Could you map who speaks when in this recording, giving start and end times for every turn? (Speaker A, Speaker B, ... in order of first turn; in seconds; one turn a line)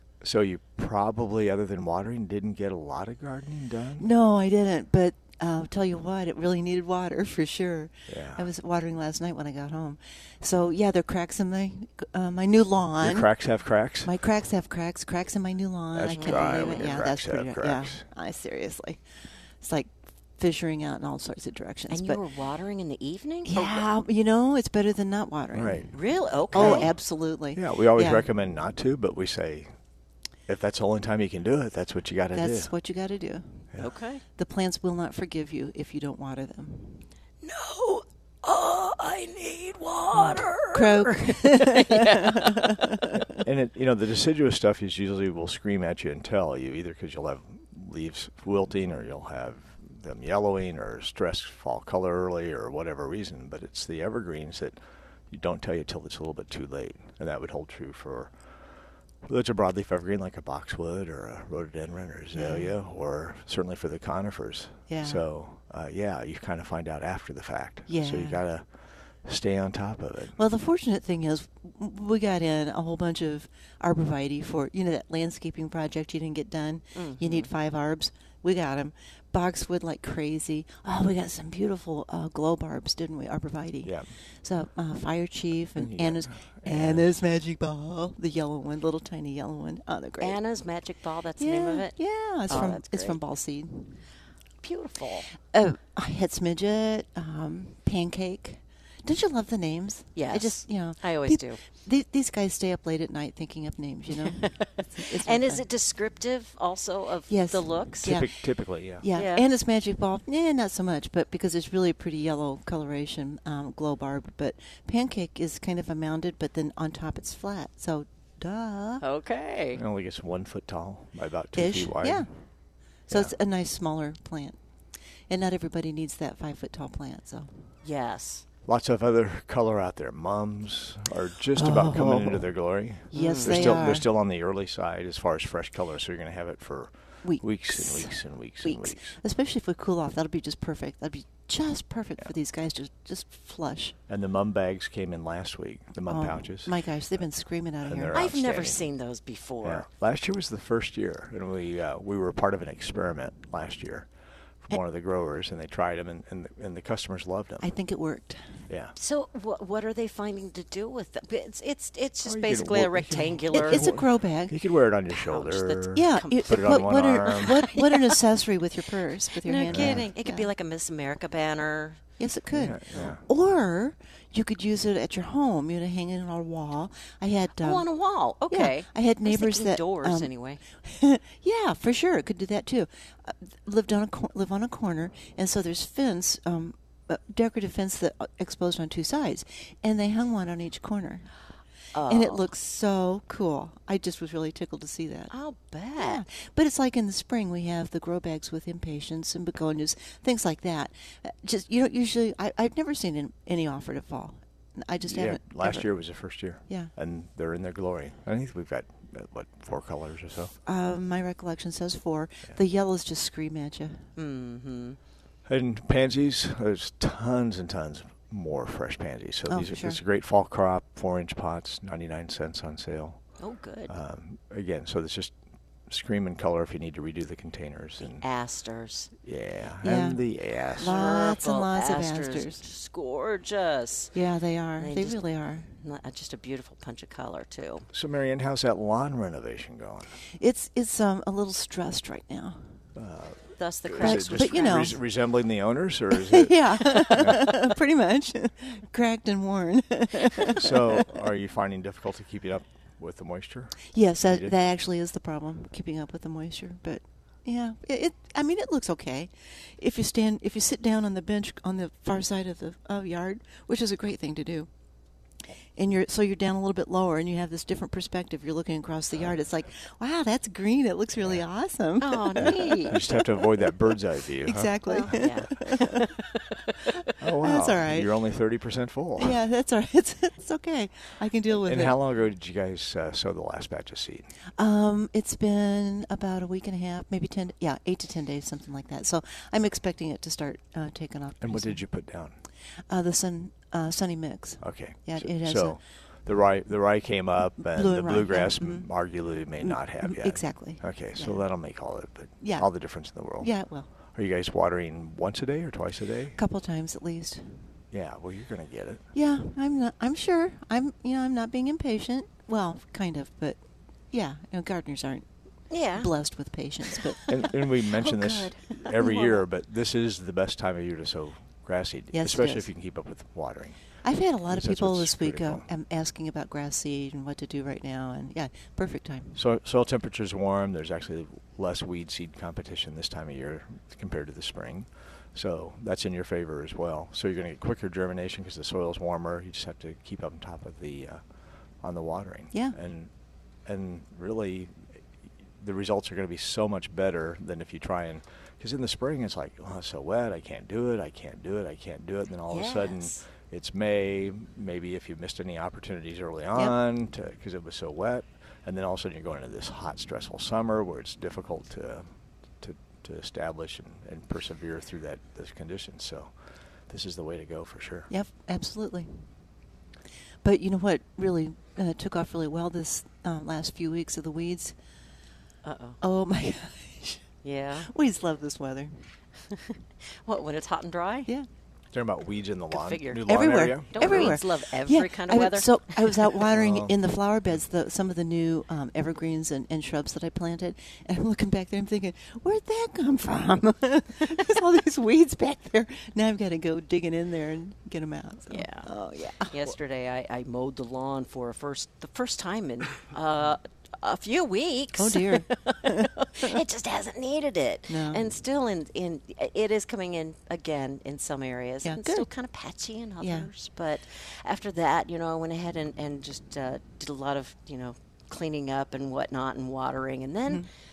Speaker A: 0.2-4.1
Speaker B: 4.0-13.3
Speaker A: 8.1-8.5
Speaker A: 13.0-14.1
Speaker B: 14.0-19.0
Speaker A: 15.9-18.0
Speaker C: 16.1-16.9
Speaker B: 19.6-22.2
Speaker C: 21.9-23.9
Speaker B: 23.5-25.9
Speaker A: 25.5-25.9
Speaker C: 25.9-26.9
Speaker B: 26.5-28.3
Speaker A: 26.5-26.9
Speaker A: 27.5-29.7
Speaker A: 30.5-32.7
Speaker B: 32.3-33.7
Speaker C: 33.8-34.2
Speaker B: 34.4-37.1
Speaker C: 37.4-43.0
Speaker B: 40.7-43.2
Speaker A: 43.3-54.8
Speaker A: 55.3-58.3
Speaker A: 59.2-68.7
Speaker B: 62.3-62.7
Speaker B: 64.9-65.2
Speaker B: 67.9-68.4
Speaker A: 69.2-70.4
Speaker B: 70.4-90.4
Speaker C: 77.0-77.5
Speaker A: 83.8-84.1
Speaker A: 85.8-87.1
Speaker C: 90.2-92.0
Speaker B: 91.4-94.0
Speaker C: 92.5-93.2
Speaker C: 94.6-95.3
Speaker B: 95.4-105.6
Speaker C: 100.2-101.6
Speaker C: 104.2-108.2
Speaker B: 107.3-108.3
Speaker A: 108.0-109.1
Speaker B: 109.0-119.0
Speaker C: 109.1-109.5
Speaker C: 119.0-119.8
Speaker A: 119.8-122.3
Speaker B: 121.6-122.3
Speaker A: 123.1-123.3
Speaker B: 123.1-124.6
Speaker B: 125.3-127.7
Speaker C: 127.8-128.4
Speaker A: 128.7-139.2
Speaker B: 131.6-132.5
Speaker B: 133.1-134.1
Speaker C: 133.1-133.8
Speaker B: 137.2-143.9
Speaker A: 144.1-147.2
Speaker B: 146.1-148.3
Speaker A: 147.8-148.8
Speaker C: 148.1-149.8
Speaker A: 149.6-154.1
Speaker A: 154.6-157.7
Speaker B: 157.6-158.5
Speaker A: 158.7-158.9
Speaker C: 159.0-163.9
Speaker A: 162.2-167.6
Speaker B: 163.5-164.6
Speaker C: 165.1-168.2
Speaker B: 165.9-170.5
Speaker C: 169.4-172.0
Speaker A: 169.7-170.1
Speaker B: 172.2-177.8
Speaker A: 172.5-173.2
Speaker C: 177.6-180.6
Speaker B: 178.5-191.3
Speaker C: 191.9-192.5
Speaker B: 192.1-195.3
Speaker C: 195.3-196.2
Speaker B: 196.0-205.9
Speaker A: 205.1-210.5
Speaker B: 210.7-214.0
Speaker C: 214.2-215.0
Speaker A: 215.5-223.2
Speaker B: 219.5-220.0
Speaker C: 223.4-223.9
Speaker A: 223.9-225.3
Speaker A: 225.9-228.2
Speaker C: 228.0-229.1
Speaker A: 229.2-231.0
Speaker B: 229.8-230.2
Speaker B: 230.8-232.6
Speaker C: 230.8-234.2
Speaker B: 234.1-235.7
Speaker C: 234.8-237.9
Speaker A: 237.9-240.2
Speaker B: 240.3-242.6
Speaker A: 243.0-247.5
Speaker C: 243.6-245.0
Speaker B: 244.0-245.0
Speaker B: 246.1-251.1
Speaker A: 250.5-254.5
Speaker B: 253.9-264.7
Speaker B: 265.8-273.7
Speaker C: 272.0-273.0
Speaker A: 272.4-275.2
Speaker B: 274.4-276.1
Speaker C: 274.9-277.1
Speaker A: 277.2-279.4
Speaker B: 277.4-278.1
Speaker B: 279.2-282.0
Speaker A: 281.6-284.3
Speaker B: 284.6-291.8
Speaker A: 291.4-292.4
Speaker B: 292.9-295.8
Speaker A: 294.6-303.5
Speaker B: 297.6-298.9
Speaker B: 299.6-301.4
Speaker B: 302.4-302.7
Speaker B: 303.4-303.9
Speaker A: 304.1-306.4
Speaker B: 306.4-307.6
Speaker A: 307.9-309.0
Speaker B: 309.1-313.6
Speaker B: 314.1-315.3
Speaker C: 315.7-316.1
Speaker B: 316.0-317.5
Speaker A: 317.3-324.0
Speaker C: 318.1-319.4
Speaker B: 322.1-322.7
Speaker B: 324.0-329.4
Speaker A: 324.5-325.6
Speaker A: 329.4-341.2
Speaker A: 341.8-343.1
Speaker A: 343.7-344.8
Speaker A: 345.6-362.1
Speaker C: 352.5-353.2
Speaker A: 362.6-366.3
Speaker A: 366.9-368.1
Speaker B: 368.1-369.3
Speaker B: 370.4-374.8
Speaker C: 375.6-376.0
Speaker B: 376.0-377.2
Speaker C: 377.4-377.9
Speaker B: 377.8-379.0
Speaker C: 379.5-381.3
Speaker A: 381.9-384.4
Speaker C: 382.7-383.3
Speaker B: 383.3-399.6
Speaker C: 383.9-386.2
Speaker A: 386.5-386.9
Speaker C: 398.5-398.9
Speaker C: 399.4-420.7
Speaker B: 405.0-406.6
Speaker B: 407.9-408.2
Speaker B: 411.8-412.3
Speaker B: 413.2-413.5